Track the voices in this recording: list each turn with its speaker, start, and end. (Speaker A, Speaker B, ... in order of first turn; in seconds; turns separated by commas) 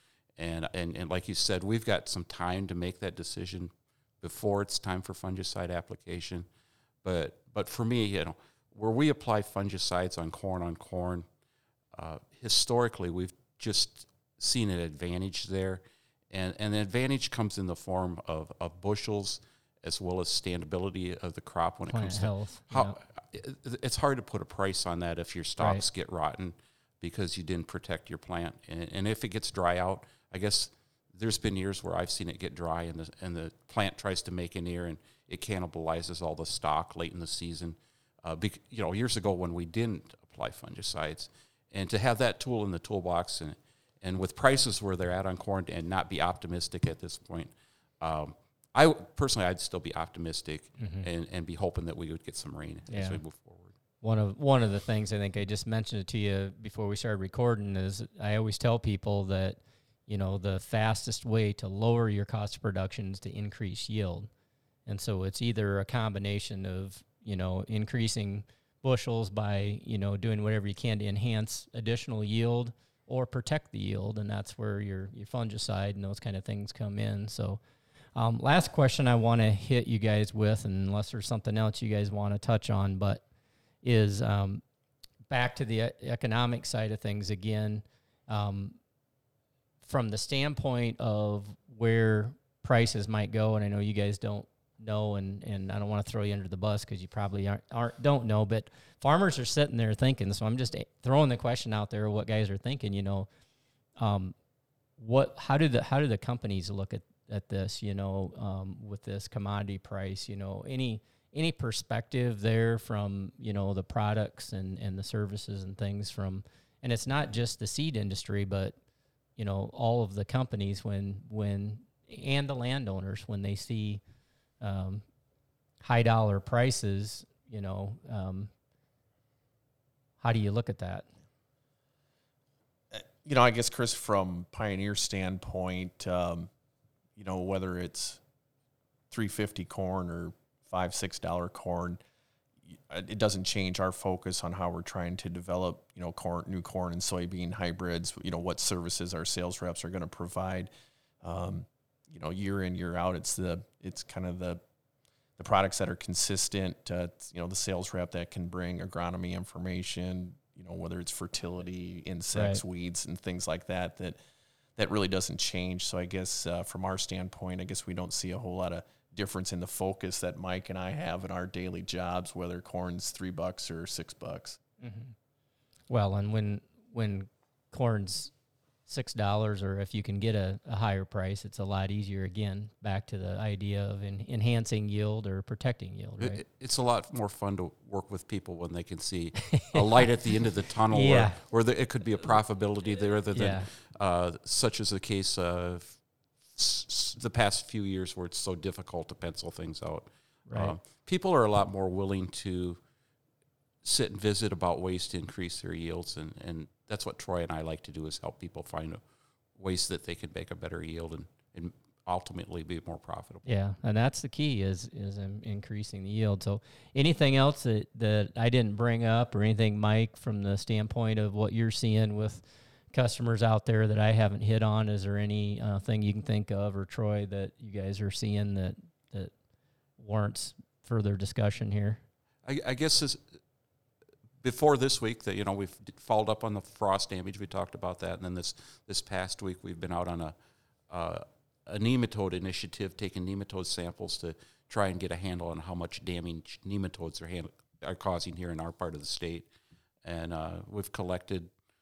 Speaker A: 0.4-6.5, Speaker A: 7.0-11.3, Speaker A: 11.9-53.8, Speaker B: 21.9-23.0, Speaker B: 50.8-51.1, Speaker B: 52.9-53.2, Speaker B: 54.0-64.3, Speaker B: 64.9-77.6, Speaker B: 78.1-83.2, Speaker B: 83.8-84.6, Speaker B: 85.3-88.8, Speaker B: 89.8-103.3, Speaker B: 104.0-104.3, Speaker B: 105.0-118.8, Speaker B: 119.4-124.0, Speaker B: 124.6-125.0, Speaker B: 125.8-128.5, Speaker B: 130.2-131.1, Speaker C: 132.9-136.5, Speaker C: 137.2-138.2, Speaker C: 139.1-142.0, Speaker C: 142.7-150.7, Speaker C: 151.2-154.6, Speaker C: 155.4-164.2, Speaker B: 162.3-162.6, Speaker C: 164.8-174.6, Speaker B: 174.8-175.1, Speaker B: 175.9-178.3, Speaker B: 178.9-186.4, Speaker A: 186.2-196.0, Speaker B: 189.5-189.8, Speaker B: 190.9-191.4, Speaker B: 193.3-193.7, Speaker A: 196.5-202.8, Speaker B: 200.5-200.8, Speaker A: 203.8-209.0, Speaker A: 209.6-213.5, Speaker B: 213.5-229.3, Speaker B: 230.0-232.0, Speaker A: 232.4-233.2, Speaker A: 234.4-240.3, Speaker A: 240.9-249.5, Speaker A: 250.0-251.5